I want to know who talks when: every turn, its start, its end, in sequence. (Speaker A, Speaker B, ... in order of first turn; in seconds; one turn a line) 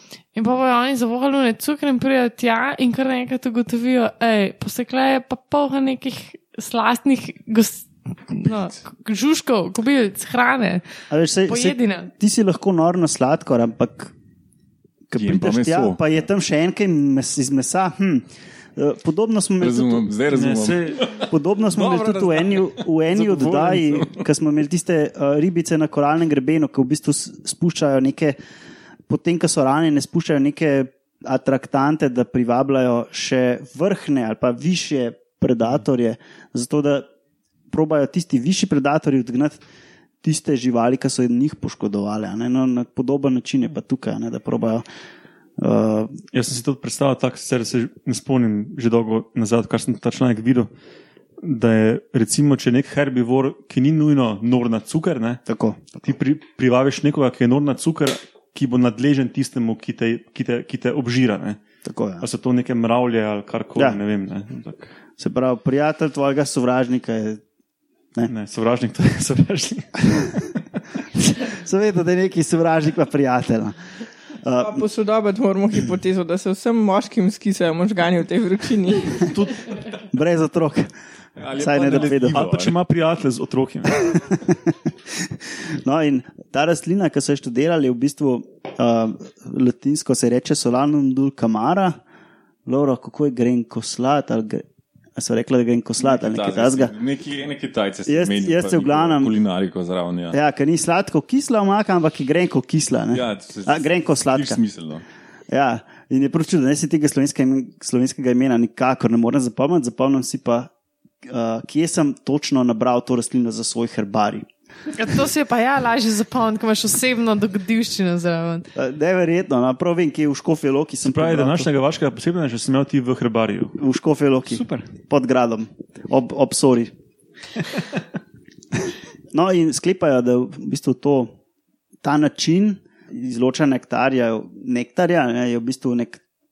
Speaker A: 0.3-10.9
Speaker B: 11.1-14.1
Speaker A: 11.5-12.1
Speaker B: 15.1-20.1
Speaker C: 15.2-16.0
Speaker C: 19.6-24.2
Speaker D: 20.3-21.2
Speaker B: 21.2-28.4
Speaker B: 29.1-37.0
Speaker B: 37.7-39.6
Speaker B: 40.2-44.9
Speaker B: 45.6-46.1
Speaker D: 46.3-50.7
Speaker D: 51.4-55.4
Speaker B: 55.5-56.0
Speaker D: 56.0-61.6
Speaker B: 61.8-62.2
Speaker D: 62.2-64.9
Speaker B: 65.2-67.4
Speaker D: 68.3-70.6
Speaker B: 71.2-74.8
Speaker E: 74.6-79.3
Speaker B: 80.1-80.9
Speaker C: 81.4-82.8
Speaker B: 81.5-82.4
Speaker D: 81.9-84.1
Speaker B: 83.9-92.0
Speaker B: 92.7-96.9
Speaker C: 96.0-100.4
Speaker B: 98.1-99.4
Speaker B: 100.3-104.6
Speaker C: 103.1-105.0
Speaker B: 105.5-110.7
Speaker B: 111.2-114.5
Speaker A: 114.9-118.7
Speaker B: 118.8-121.7
Speaker D: 121.0-123.8
Speaker B: 123.8-126.9
Speaker D: 124.5-124.9
Speaker B: 129.3-131.3
Speaker B: 132.0-136.2